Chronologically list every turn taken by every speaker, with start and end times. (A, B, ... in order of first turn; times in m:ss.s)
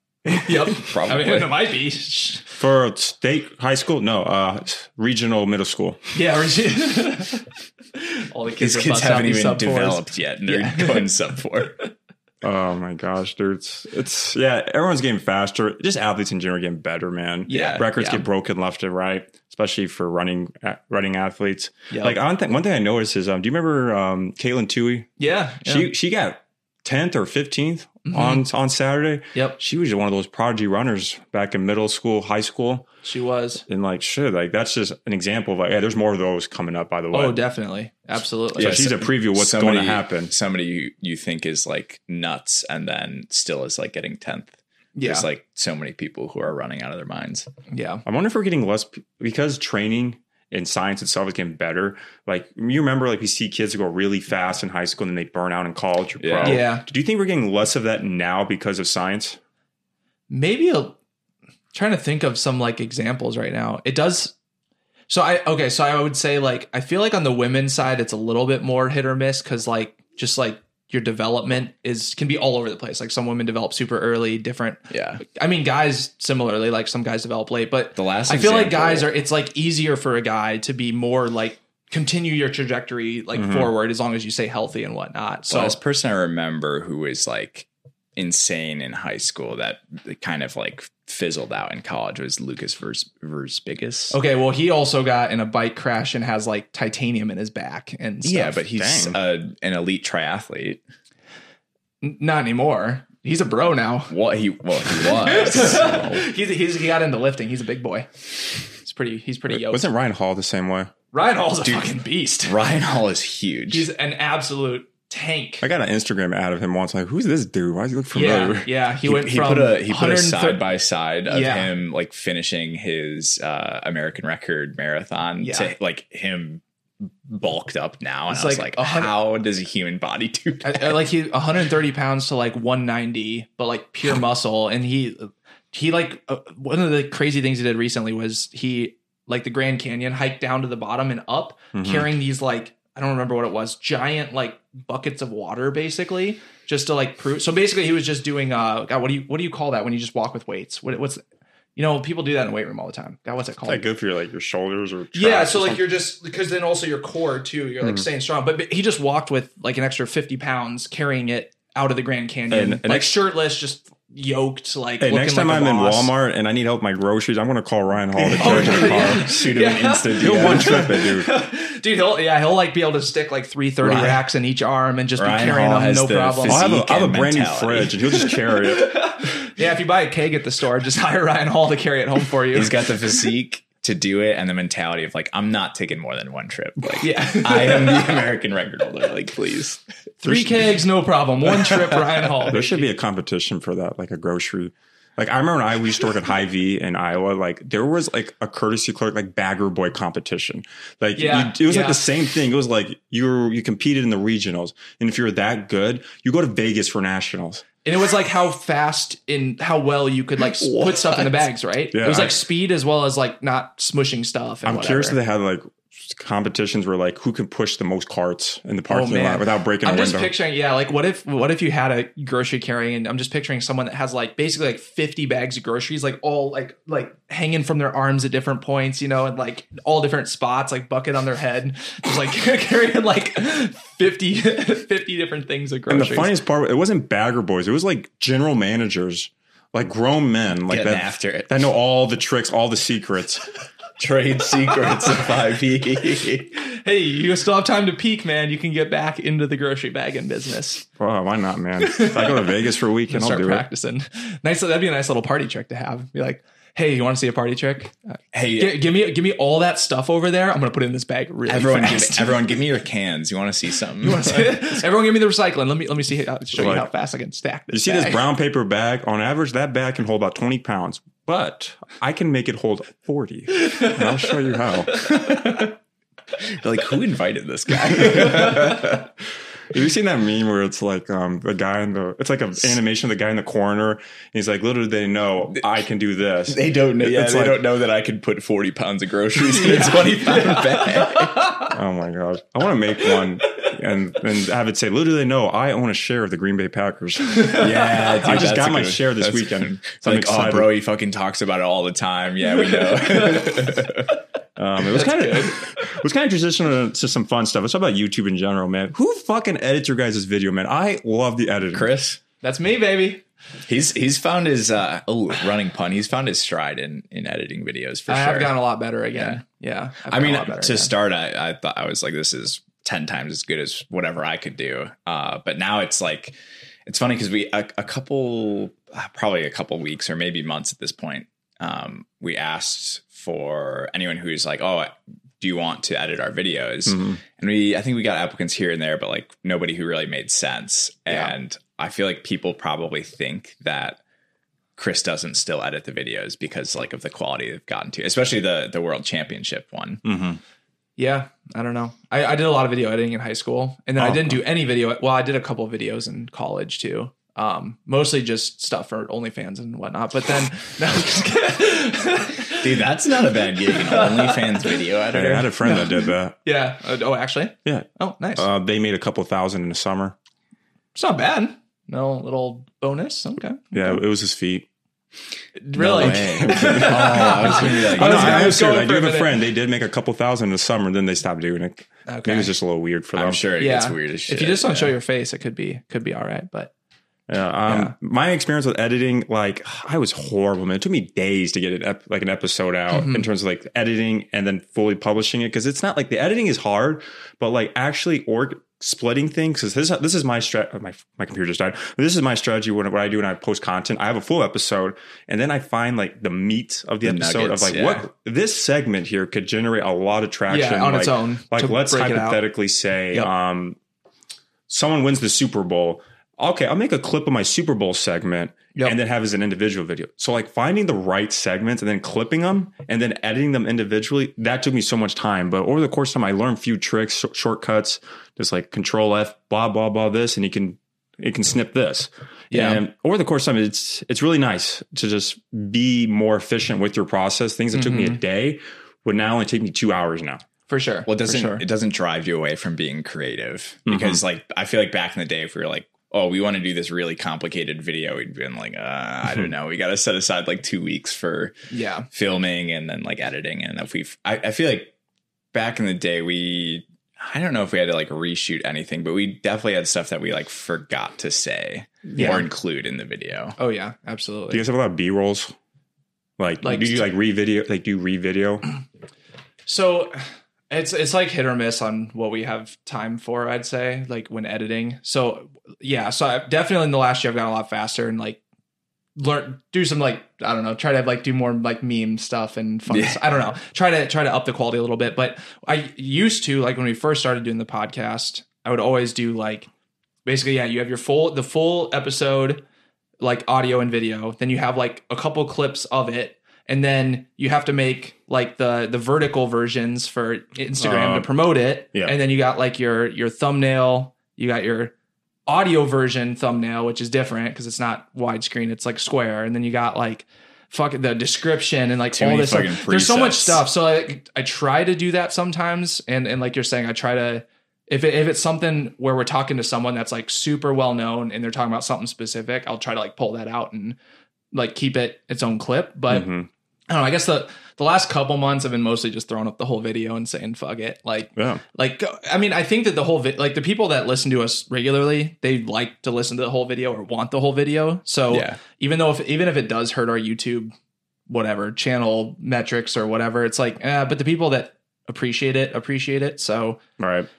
0:00.2-0:02.4 A
0:00.8-0:01.5 B
0:02.5-0:06.1 C
0:06.1-0:11.1 A
0:08.6-0:11.7 B
0:12.4-0:25.1 C
0:17.5-0:18.2 A
0:17.5-0:17.8 B
0:21.9-0:22.2 A
0:25.2-0:25.9 A
0:25.6-0:32.9 C
0:28.0-0:28.4 A
0:29.3-0:29.6 A
0:33.0-0:33.6 A
0:33.7-0:37.4 C
0:37.1-0:38.8 A
0:38.5-0:44.5 B
0:38.6-0:40.3 C
0:45.0-0:45.3 A
0:45.0-0:47.5 B
0:47.7-0:48.0 A
0:48.0-0:59.4 C
0:56.2-0:56.7 B
0:56.4-0:56.9 A
1:00.3-1:01.0 A
1:01.7-1:04.3 A
1:05.1-1:25.8 A
1:14.9-1:15.2 B
1:18.0-1:19.1 B
1:23.4-1:23.7 C
1:25.5-1:34.2 B
1:34.1-1:38.6 A
1:38.2-1:40.8 B
1:38.7-1:39.2 C
1:42.0-1:44.1 A
1:44.1-1:46.2 B
1:44.9-1:48.1 A
1:48.8-1:49.9 A
1:49.5-1:50.9 C
1:51.1-1:52.6 A
1:52.4-1:53.9 B
1:53.7-1:55.6 A
1:55.6-1:58.7 C
1:58.1-2:00.7 A
1:59.0-2:11.0 B
2:01.2-2:01.7 A
2:05.4-2:05.7 A
2:08.3-2:09.1 A
2:10.6-2:31.2 A
2:21.7-2:22.1 C
2:31.8-2:33.8 A
2:33.6-2:35.9 C
2:35.1-2:46.1 A
2:42.5-2:43.2 C
2:45.0-2:49.4 C
2:48.1-2:51.0 B
2:48.4-2:56.7 A
2:50.2-2:51.3 C
2:53.8-2:54.2 B
2:55.2-2:58.2 B
2:56.5-2:59.1 C
2:58.4-3:02.9 A
3:02.5-3:10.4 B
3:07.0-3:08.2 A
3:10.2-3:12.9 A
3:12.5-3:27.6 C
3:21.2-3:22.0 A
3:27.8-3:35.2 A
3:30.6-3:31.4 B
3:31.9-3:32.4 C
3:34.6-3:40.3 C
3:38.9-3:56.3 A
3:55.9-4:03.4 C
4:00.7-4:01.5 B
4:04.0-4:06.5 B
4:06.7-4:10.8 A
4:11.0-4:13.6 C
4:11.8-4:12.5 A
4:13.1-4:22.6 A
4:18.3-4:18.8 B
4:21.5-4:24.8 B
4:24.0-4:28.2 A
4:26.5-4:26.9 C
4:27.7-4:35.2 C
4:33.7-4:34.1 A
4:35.3-4:35.6 B
4:36.4-4:38.9 B
4:39.7-4:47.6 C
4:46.5-4:51.5 B
4:49.4-4:51.7 A
4:51.7-5:00.7 C
4:57.3-4:58.1 A
4:57.5-5:04.1 B
5:03.0-5:03.5 A
5:04.6-5:11.9 C
5:04.9-5:05.6 A
5:11.7-5:12.2 B
5:12.4-5:13.2 A
5:13.6-5:18.6 B
5:18.1-5:20.9 A
5:19.1-5:19.4 B
5:20.1-5:44.0 B
5:36.9-5:37.2 C
5:41.1-5:41.3 A
5:44.8-5:50.0 B
5:50.0-5:50.4 C
5:51.0-6:02.8 A
5:54.0-5:54.4 C
6:02.6-6:05.5 B
6:03.4-6:04.9 A
6:05.1-6:06.3 C
6:05.6-6:08.5 A
6:07.6-6:10.2 C
6:10.9-6:14.0 A
6:13.7-6:14.6 C
6:15.6-6:19.4 A
6:15.7-6:18.7 B
6:16.0-6:23.4 C
6:22.1-6:22.5 A
6:23.1-6:24.9 B
6:23.6-6:26.7 A
6:27.3-6:53.8 C
6:27.7-6:27.9 A
6:32.9-6:33.3 A
6:47.0-6:48.0 B
6:50.5-6:52.4 A
6:54.7-7:20.4 C
7:12.5-7:12.8 A
7:17.7-7:18.2 A
7:20.7-7:21.6 A
7:21.1-7:31.5 B
7:23.9-7:24.2 C
7:31.7-7:32.1 A
7:32.1-7:34.9 B
7:35.5-7:43.6 B
7:42.1-7:42.5 A
7:43.6-7:44.6 A
7:44.5-7:45.5 C
7:46.4-7:48.7 C
7:46.6-7:47.0 A
7:49.6-7:58.4 A
7:59.2-8:09.7 A
8:02.9-8:03.2 B
8:10.2-8:12.6 A
8:13.2-8:24.9 A
8:20.8-8:21.3 C
8:25.5-8:44.0 A
8:32.1-8:33.6 B
8:44.5-8:46.3 A
8:46.1-8:46.5 C
8:46.9-9:00.7 A
8:51.4-8:51.6 C
8:58.3-8:58.6 B
9:01.3-9:06.8 A
9:07.0-9:07.3 C